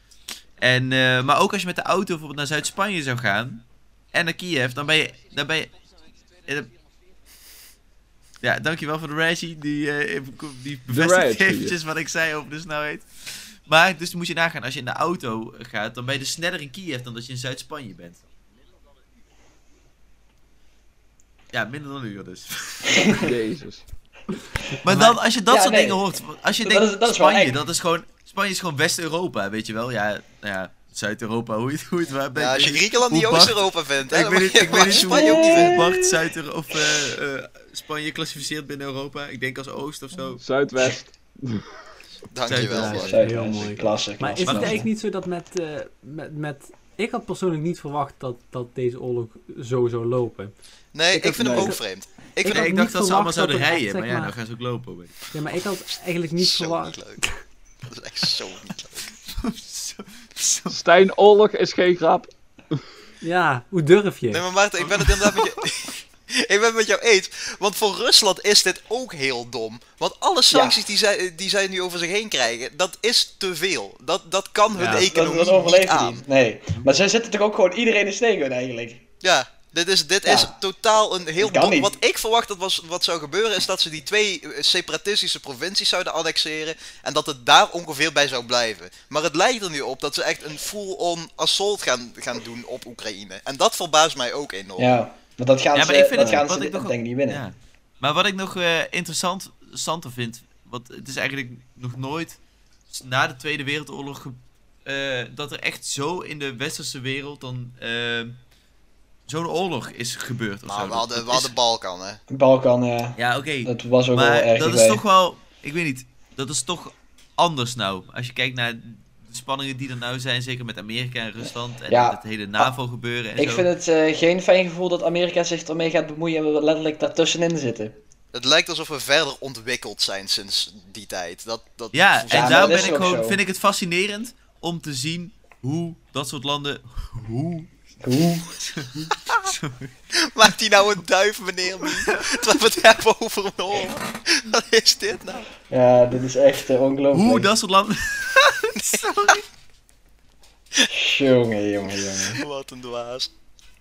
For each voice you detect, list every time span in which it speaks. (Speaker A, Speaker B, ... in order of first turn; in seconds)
Speaker A: 0.6-5.7, 8.4-18.2, 21.5-23.2, 24.8-40.4, 42.5-43.9, 44.4-44.8, 52.5-55.2, 59.3-60.8, 64.8-65.5, 95.7-102.4, 102.9-108.4, 109.3-111.5, 113.2-123.7, 131.9-137.7, 138.8-139.9, 147.1-149.4
Speaker B: 10.9-11.8, 23.1-23.8, 40.4-41.6, 51.4-51.7, 60.7-62.8
Speaker C: 22.9-23.2, 24.9-26.1, 26.6-27.6, 34.9-36.2, 42.9-44.8, 70.5-70.8, 74.8-79.0, 80.2-80.5, 81.4-82.0, 94.8-97.4, 112.3-115.0, 121.9-122.7, 123.4-128.0, 132.3-133.4, 138.0-138.6, 145.7-147.5, 150.9-152.4
Speaker D: 32.4-35.8, 42.3-43.2, 50.9-52.7, 56.4-57.2, 57.9-59.1, 64.3-76.2, 79.2-95.0, 110.7-112.2, 128.3-133.0, 140.3-145.5, 152.3-153.3
Speaker E: 42.8-50.5, 51.1-51.8, 52.4-54.3, 55.3-57.4, 63.2-64.5, 74.8-75.1